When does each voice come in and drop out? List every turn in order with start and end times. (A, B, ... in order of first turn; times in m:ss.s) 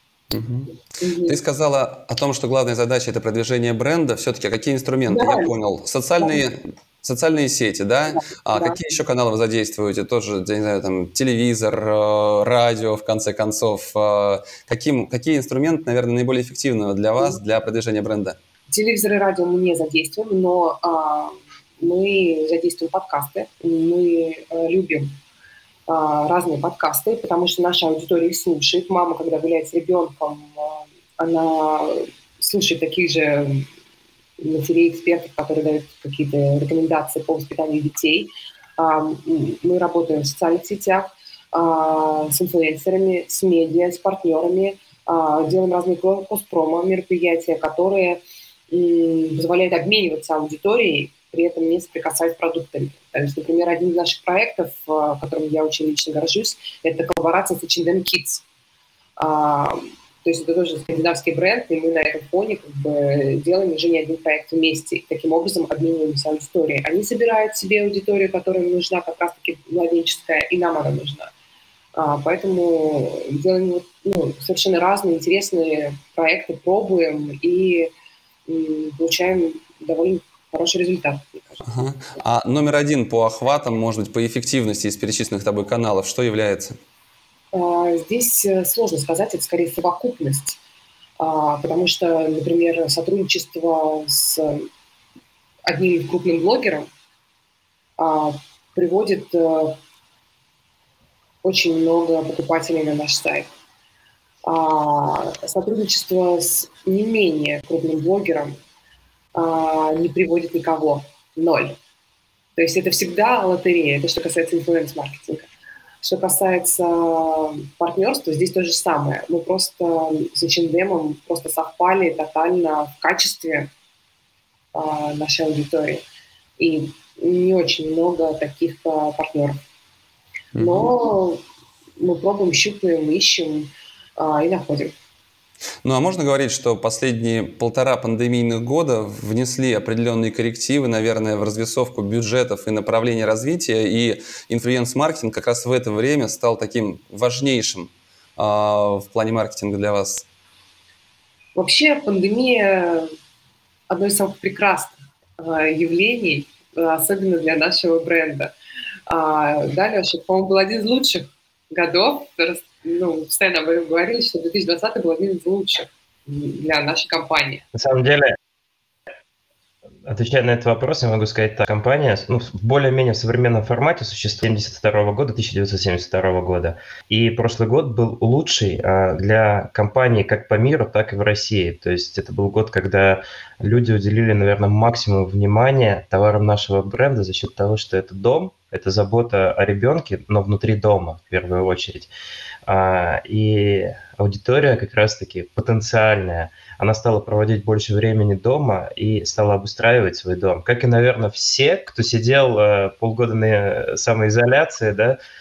0:00.3-0:00.7 A
0:01.0-0:01.4 B
0:01.3-0:18.4 A
0:05.1-0:05.5 B
0:08.1-0:08.8 B
0:18.7-0:25.1 B
0:25.9-0:33.7 B
0:34.4-0:58.4 B
0:59.2-1:11.3 B
1:12.0-1:17.9 B
1:18.5-1:21.6 B
1:21.6-1:26.8 A
1:27.5-1:30.6 B
1:31.2-1:34.7 B
1:35.7-1:36.9 B
1:38.0-1:39.8 B
1:41.4-1:43.5 B
1:44.4-1:48.6 B
1:49.4-1:51.8 B
1:52.6-1:55.5 B
1:56.0-2:03.7 B
2:04.7-2:06.0 B
2:06.6-2:09.6 B
2:10.6-2:10.9 A
2:10.6-2:11.4 B
2:12.0-2:14.9 B
2:15.8-2:30.3 A
2:31.6-2:33.1 B
2:33.9-2:38.5 B
2:39.1-2:47.6 B
2:47.7-2:48.3 C
2:50.1-3:12.1 C
3:12.7-3:25.2 C